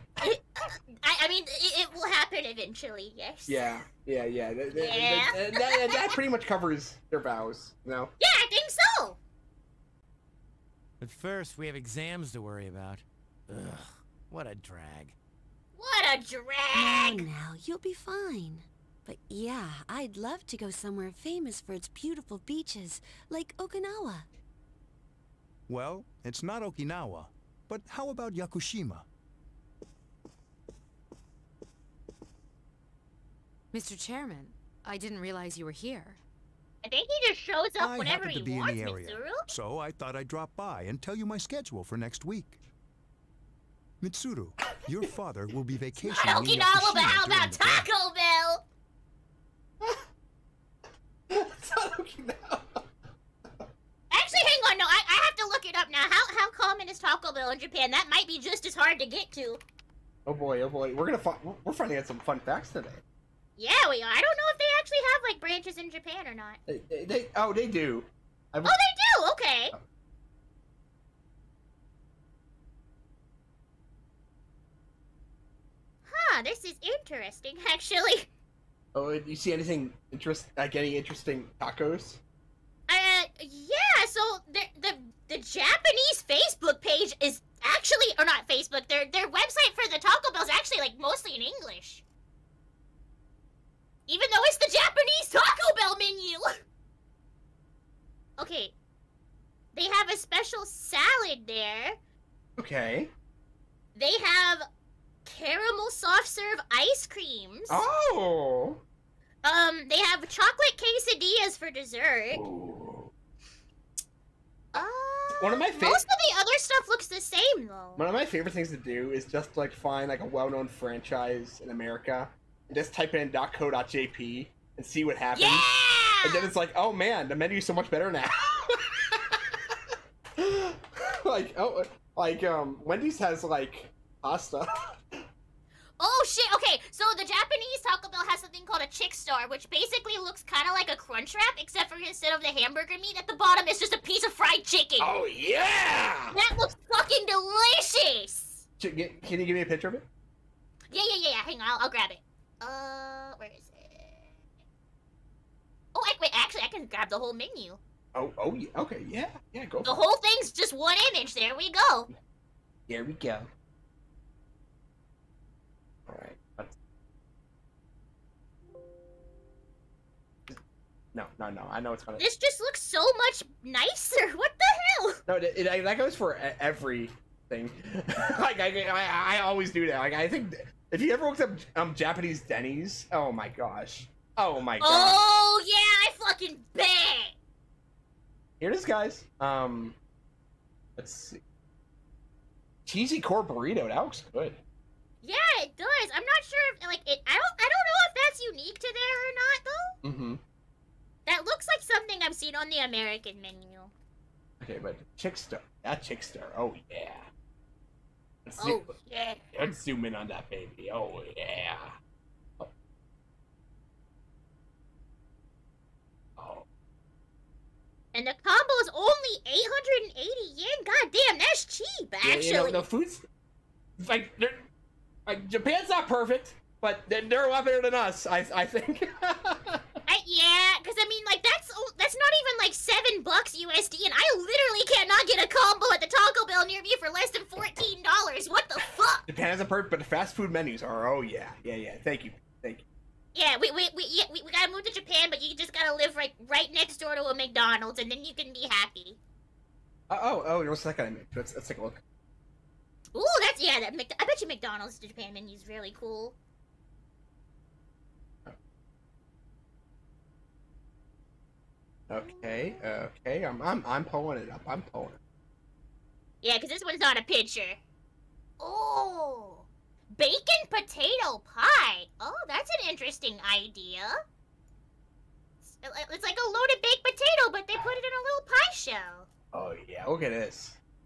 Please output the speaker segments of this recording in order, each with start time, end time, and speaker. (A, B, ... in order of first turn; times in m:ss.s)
0:00.2-0:03.8 A
0:03.5-0:08.1 B
0:04.7-0:06.2 A
0:08.2-0:09.2 A
0:11.0-0:15.2 C
0:15.8-0:17.2 A
0:16.7-0:24.3 D
0:25.7-0:29.1 E
0:33.7-0:36.2 F
0:36.8-0:39.4 A
0:37.8-0:42.6 E
0:44.0-0:47.9 E
0:46.0-0:48.6 A
0:51.3-0:52.9 B
0:54.1-0:59.6 A
1:00.3-1:03.0 B
1:03.6-1:06.6 A
1:06.7-1:08.8 B
1:08.6-1:09.7 A
1:16.1-1:18.3 A
1:18.9-1:22.2 B
1:22.9-1:32.0 A
1:34.1-1:36.6 A
1:38.4-1:38.7 A
1:39.7-1:42.0 A
1:42.6-1:43.1 B
1:44.0-1:44.7 A
1:45.2-1:47.8 A
1:47.7-1:48.8 B
1:49.4-1:52.4 A
1:52.3-1:53.1 B
1:54.7-1:58.1 A
1:55.3-1:56.1 B
1:58.0-2:05.7 B
2:05.3-2:06.5 A
2:06.2-2:15.2 B
2:16.0-2:25.1 A
2:25.0-2:26.4 B
2:26.3-2:28.6 A
2:28.8-2:30.1 B
2:30.9-2:34.4 A
2:35.9-2:37.8 A
2:38.1-2:39.9 B
2:39.8-2:42.1 A
2:42.9-2:43.5 B
2:46.1-2:46.8 B
2:51.1-2:52.2 B
2:52.2-2:55.2 A
2:55.3-3:05.2 B
3:04.8-3:07.4 A
3:08.6-3:10.0 B
3:11.0-3:11.4 B
3:12.9-3:14.6 B
3:15.2-3:20.0 A
3:20.0-3:20.4 B
3:21.3-3:23.9 A
3:24.6-3:27.3 B
3:28.4-3:29.0 B
3:28.6-3:29.7 A
3:29.5-3:32.0 B
3:36.4-3:36.7 B
3:38.1-3:42.8 A
3:42.2-3:43.3 B
3:44.0-3:44.7 B
3:45.3-3:50.0 B
3:50.1-3:59.3 A
3:59.3-4:02.8 B
4:03.4-4:09.2 A
4:10.1-4:12.0 B
4:13.2-4:16.4 A
4:22.1-4:25.2 B
4:26.4-4:27.8 A
4:28.6-4:34.2 A
4:35.6-4:39.3 A
4:39.5-4:40.8 B